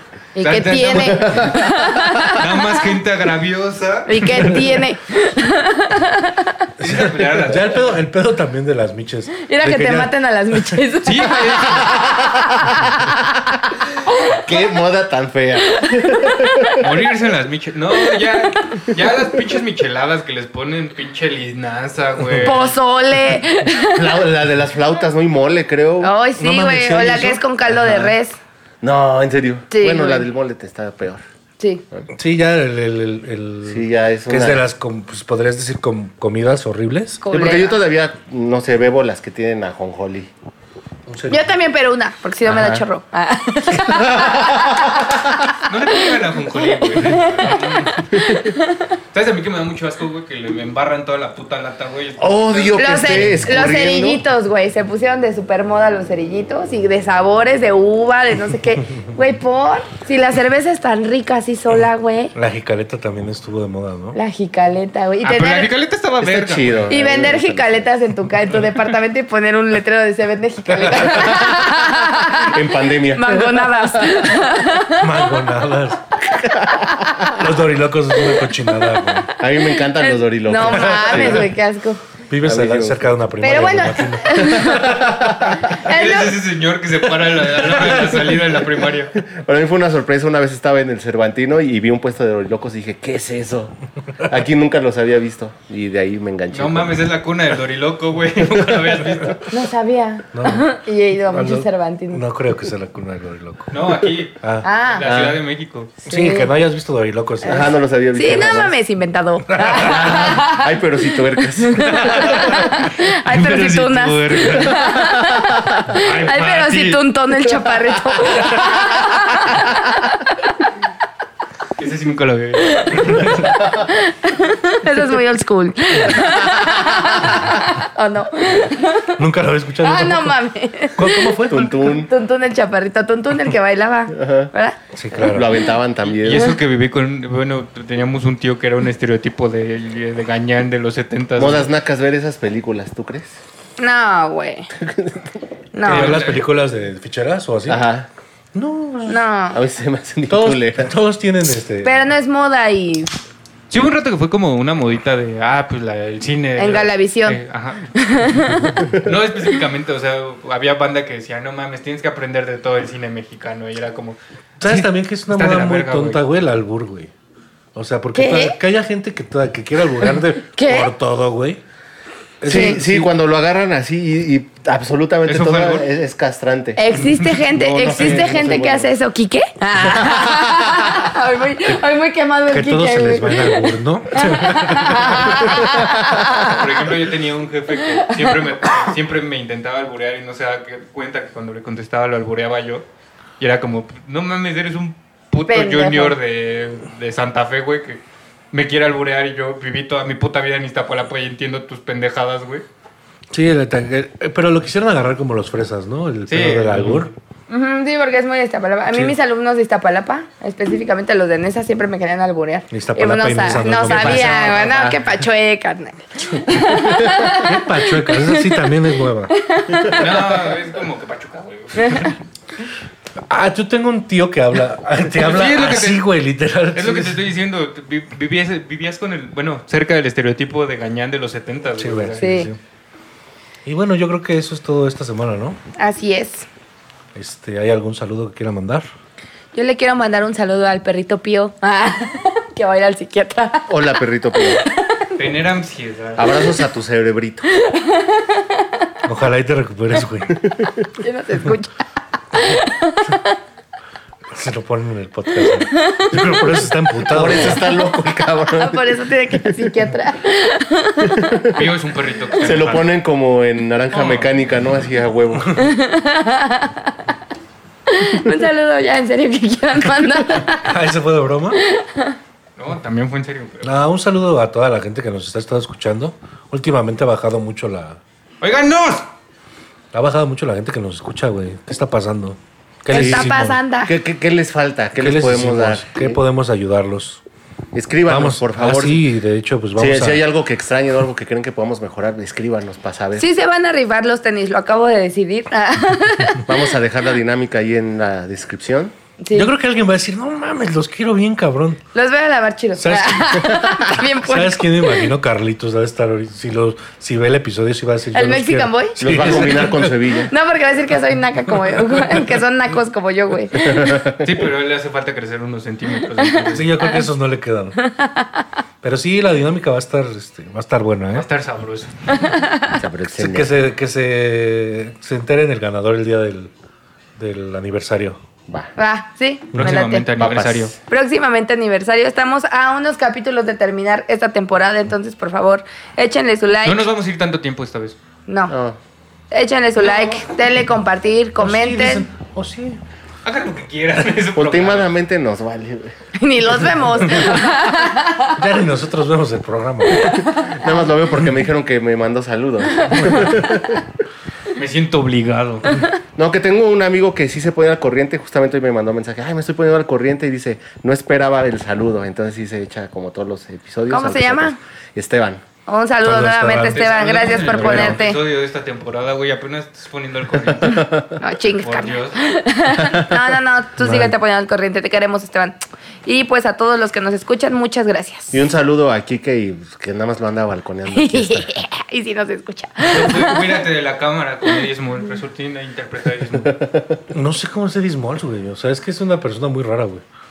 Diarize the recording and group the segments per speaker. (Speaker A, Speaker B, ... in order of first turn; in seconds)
Speaker A: 0.3-2.8, 4.1-6.5, 9.4-14.4, 16.1-16.8, 18.2-18.9, 22.4-24.2, 26.0-28.4, 29.7-30.3, 37.2-37.8, 41.3-45.2, 46.1-48.9, 52.8-62.3, 64.2-65.7, 66.9-72.6, 73.1-75.4, 76.7-77.4, 80.0-82.0, 83.4-85.0, 85.8-86.4, 99.5-102.2, 104.6-105.0, 106.1-106.5, 107.4-110.7, 111.6-120.3, 122.6-129.2, 129.8-134.8, 143.8-144.7, 145.7-146.2, 149.1-149.6, 151.8-153.1, 156.6-157.4, 158.0-158.6, 168.1-168.6, 170.6-170.9, 172.5-172.8, 176.8-186.6, 187.9-188.4, 195.5-196.2, 207.5-218.6, 219.3-220.4, 221.8-222.1, 232.2-232.5, 235.8-236.5, 239.5-243.9, 244.7-245.1, 247.6-248.7, 251.0-253.4, 255.4-256.5, 258.5-261.4, 265.6-267.0, 267.9-270.8, 271.6-272.2, 282.9-283.9, 293.2-296.5, 299.2-299.5, 301.9-305.1, 308.1-309.4, 310.3-313.7, 317.8-318.4, 322.1-322.8, 328.8-330.1, 330.8-336.9, 338.3-338.5, 339.3-342.1, 346.2-348.4, 350.0-350.9, 363.9-364.6, 365.7-368.2, 371.2-378.3, 380.9-383.6
Speaker B: 0.4-1.6, 2.2-4.5, 6.8-7.9, 11.0-12.0, 16.8-22.7, 45.7-48.4, 49.1-53.2, 65.2-67.0, 85.7-89.2, 96.5-99.5, 103.7-105.9, 113.3-115.0, 115.9-117.0, 121.8-123.6, 136.0-141.7, 145.8-146.5, 153.7-157.9, 159.0-166.2, 175.3-175.9, 186.4-192.8, 193.4-198.0, 198.5-202.7, 206.3-207.1, 219.9-222.2, 225.1-226.1, 226.7-232.5, 245.2-246.6, 261.5-262.9, 263.9-264.3, 272.6-273.8, 278.4-279.1, 314.2-317.0, 321.1-321.9, 329.6-330.8, 336.6-338.0, 343.2-344.9, 354.6-355.8, 366.6-372.2, 382.8-386.6
Speaker C: 1.0-1.6, 14.4-16.8, 23.9-26.1, 28.8-31.2, 33.7-34.6, 37.3-40.3, 43.9-45.2, 52.2-54.2, 66.2-68.0, 71.1-71.5, 72.3-74.3, 79.4-81.5, 82.5-83.1, 84.4-85.6, 89.2-97.1, 105.0-105.3, 107.5-108.7, 109.7-112.7, 131.5-132.1, 134.1-134.5, 135.2-136.6, 141.4-143.4, 144.8-145.4, 147.7-148.1, 149.5-150.9, 158.8-159.1, 172.5-178.9, 213.5-215.0, 243.7-244.6, 246.2-247.5, 257.0-259.6, 261.1-261.6, 262.4-265.6, 282.9-283.3, 283.9-286.2, 287.7-289.1, 289.8-293.3, 296.5-298.9, 309.0-310.3, 313.5-314.2, 322.7-323.5, 330.2-330.8, 338.5-338.8, 344.4-345.9, 350.6-353.8, 356.2-365.4, 370.6-371.1, 372.8-373.1, 378.3-381.5, 386.5-387.0
Speaker D: 6.8-10.8, 26.4-28.1, 32.1-37.2, 41.1-41.5, 42.5-42.8, 62.4-64.2, 70.8-71.4, 75.0-76.2, 77.3-79.3, 80.7-81.5, 82.3-85.4, 87.5-88.4, 100.3-100.7, 101.3-105.2, 106.1-107.7, 109.5-110.3, 129.2-130.4, 130.9-131.8, 134.9-135.6, 145.8-147.8, 148.6-149.2, 150.3-151.9, 164.6-167.1, 167.8-171.6, 172.4-173.1, 182.5-185.9, 203.3-207.1, 212.7-214.7, 217.2-219.3, 223.2-227.2, 231.8-232.6, 233.7-235.6, 237.2-238.9, 249.0-250.4, 254.3-257.8, 270.4-271.6, 273.6-278.0, 279.9-283.6, 285.0-287.2, 288.1-290.2, 299.3-301.8, 302.8-310.2, 311.6-312.2, 316.5-317.8, 318.8-321.3, 323.1-326.5, 327.2-328.2, 341.4-342.8, 347.1-347.4, 348.4-350.2, 352.9-353.4, 366.0-368.0, 373.8-374.1, 387.1-390.0